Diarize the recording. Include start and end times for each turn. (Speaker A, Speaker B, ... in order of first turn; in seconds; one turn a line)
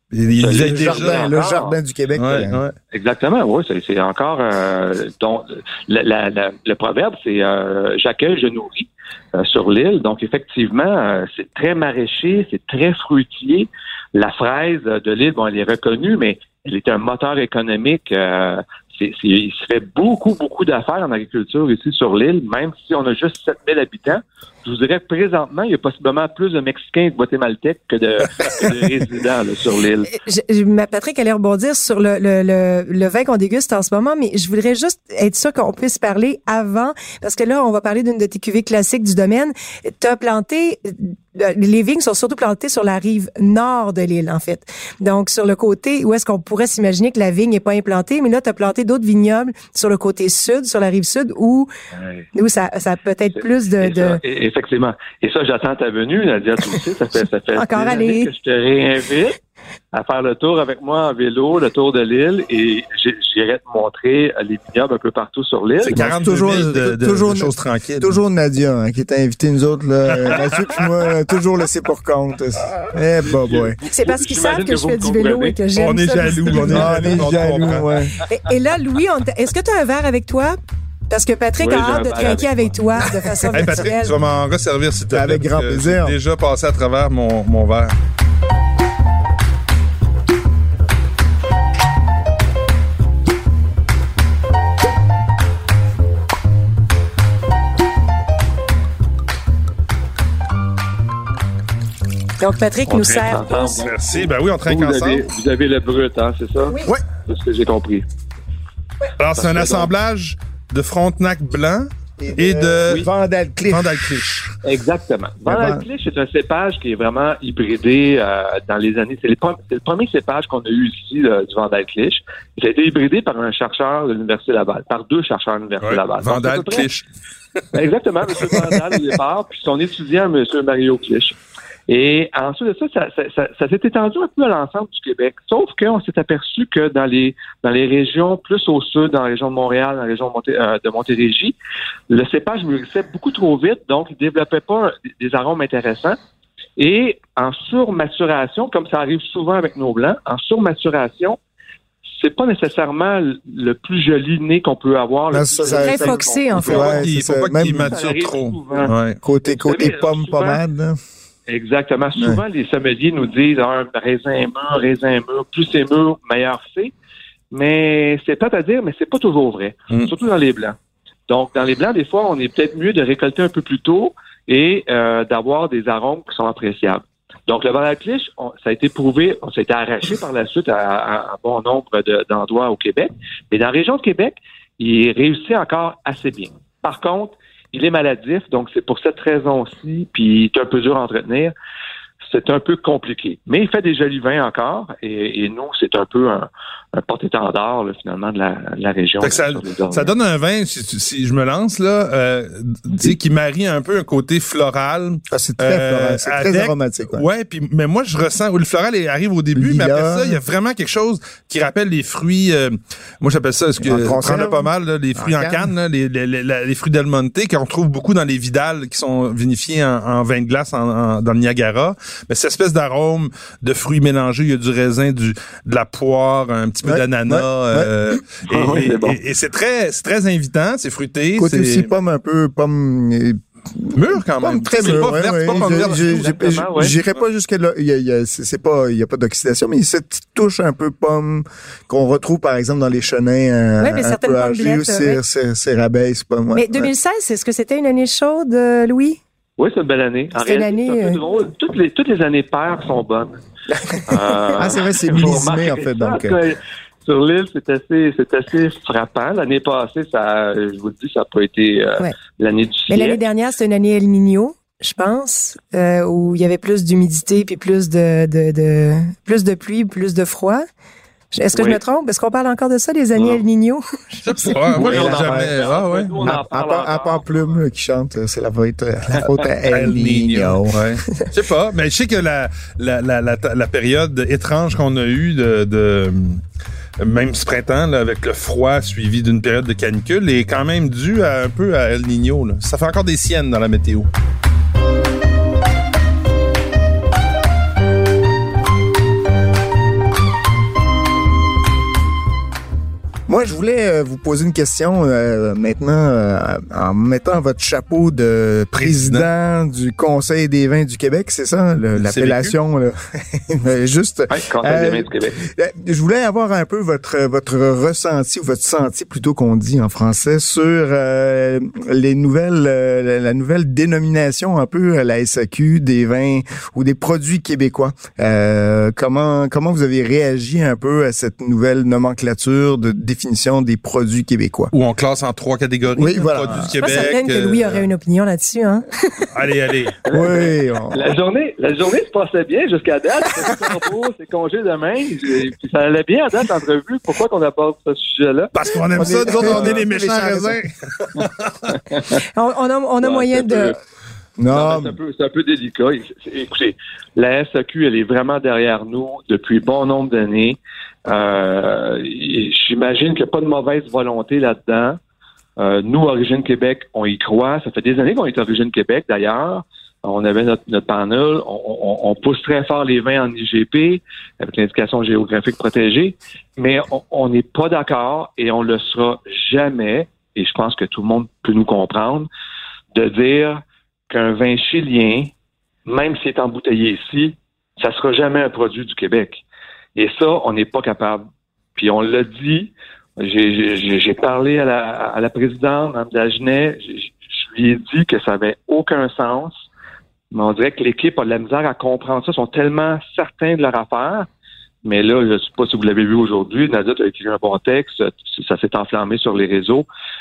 Speaker A: 0.1-1.3
Speaker B: 0.4-1.8
Speaker C: 0.5-2.6
Speaker A: 2.1-2.7
Speaker B: 2.9-30.1
Speaker D: 30.1-51.7
Speaker B: 52.0-52.2
Speaker D: 52.3-54.2
Speaker B: 53.4-59.4
Speaker D: 57.5-58.3
Speaker B: 59.9-66.0
Speaker A: 65.8-68.2
Speaker C: 65.9-73.8
Speaker A: 70.2-70.5
Speaker B: 73.2-75.9
Speaker D: 73.9-77.2
Speaker A: 75.8-78.0
Speaker C: 76.6-78.1
Speaker D: 78.3-80.6
Speaker D: 81.1-84.1
Speaker B: 81.6-83.0
Speaker A: 83.5-87.9
Speaker C: 85.1-86.1
Speaker D: 102.4-103.9
Speaker B: 102.9-108.0
Speaker A: 103.8-105.2
Speaker A: 109.2-113.1
Speaker B: 109.3-109.9
Speaker C: 112.2-114.5
Speaker A: 113.7-114.3
Speaker B: 114.6-126.9
Speaker C: 115.5-115.8
Speaker A: 125.8-127.0
Speaker B: 127.7-131.3
Speaker B: 131.9-141.5
Speaker B: 142.1-146.2
Speaker B: 146.8-151.4
Speaker B: 152.2-157.0
Speaker C: 155.3-157.9
Speaker D: 155.7-157.0
Speaker A: 156.7-159.2
Speaker B: 157.8-158.9
Speaker C: 159.2-161.0
Speaker B: 159.4-160.6
Speaker B: 161.5-166.9
Speaker C: 162.2-162.4
Speaker B: 167.5-170.8
Speaker B: 171.3-191.5
Speaker B: 192.2-200.1
Speaker A: 199.2-231.9
Speaker C: 205.3-207.2
Speaker C: 209.5-210.4
Speaker C: 213.8-215.7
Speaker C: 226.8-228.2
Speaker B: 228.5-229.2
Speaker C: 231.4-246.9
Speaker A: 233.9-236.4
Speaker B: 234.8-236.9
Speaker D: 243.8-245.2
Speaker D: 246.5-249.2
Speaker B: 249.6-253.4
Speaker D: 250.4-251.2
Speaker C: 253.7-256.4
Speaker B: 254.0-263.2
Speaker D: 262.9-270.6
Speaker D: 271.3-274.5
Speaker B: 271.5-271.8
Speaker B: 273.2-273.4
Speaker A: 274.2-276.1
Speaker B: 274.7-277.4
Speaker C: 274.7-275.6
Speaker C: 276.2-281.1
Speaker A: 279.7-286.4
Speaker A: 287.0-294.1
Speaker C: 303.3-334.7
Speaker A: 308.8-309.3
Speaker A: 312.0-312.6
Speaker B: 314.3-315.4
Speaker A: 334.7-337.8
Speaker C: 335.9-337.1
Speaker D: 336.8-339.3
Speaker A: 339.3-339.9
Speaker B: 340.1-349.8
Speaker C: 340.1-341.0
Speaker A: 348.5-351.8
Speaker C: 348.9-350.6
Speaker D: 352.3-353.8
Speaker B: 353.0-353.8
Speaker C: 354.4-355.0
Speaker B: 354.5-365.0
Speaker B: 365.6-382.3
Speaker B: 382.9-385.3
Speaker B: 385.9-389.4
Speaker B: 389.9-391.2
Speaker B: 391.8-399.6
Speaker B: 400.3-404.3
Speaker B: 404.8-409.9